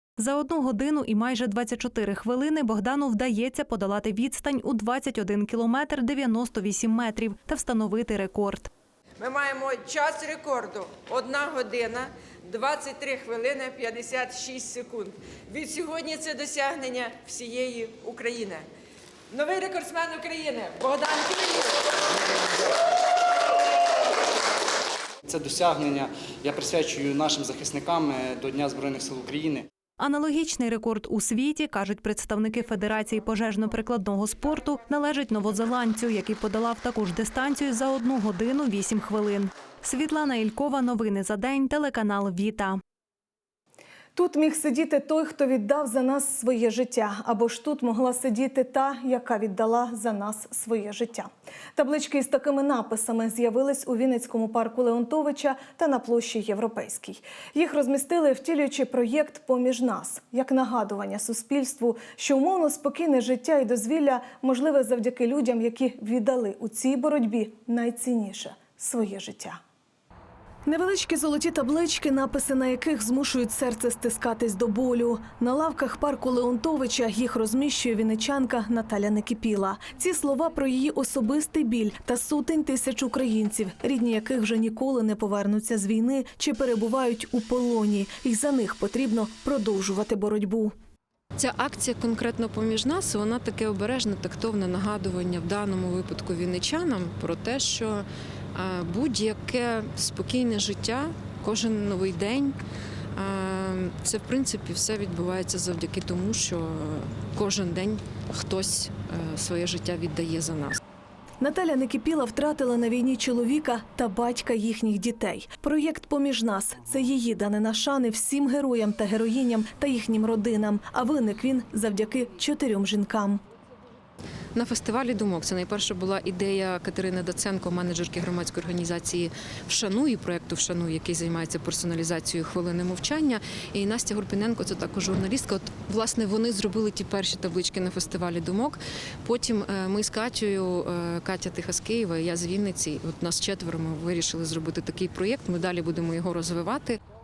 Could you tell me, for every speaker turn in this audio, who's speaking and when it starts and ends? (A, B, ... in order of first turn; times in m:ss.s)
0:00.2-0:08.7 A
0:09.2-0:18.6 B
0:19.3-0:21.9 B
0:25.3-0:29.6 C
0:30.0-0:42.8 A
0:44.2-1:09.6 D
1:10.6-1:30.7 D
1:31.4-1:42.6 E
1:43.1-1:50.8 E
1:51.4-2:03.4 D
2:04.5-2:27.0 E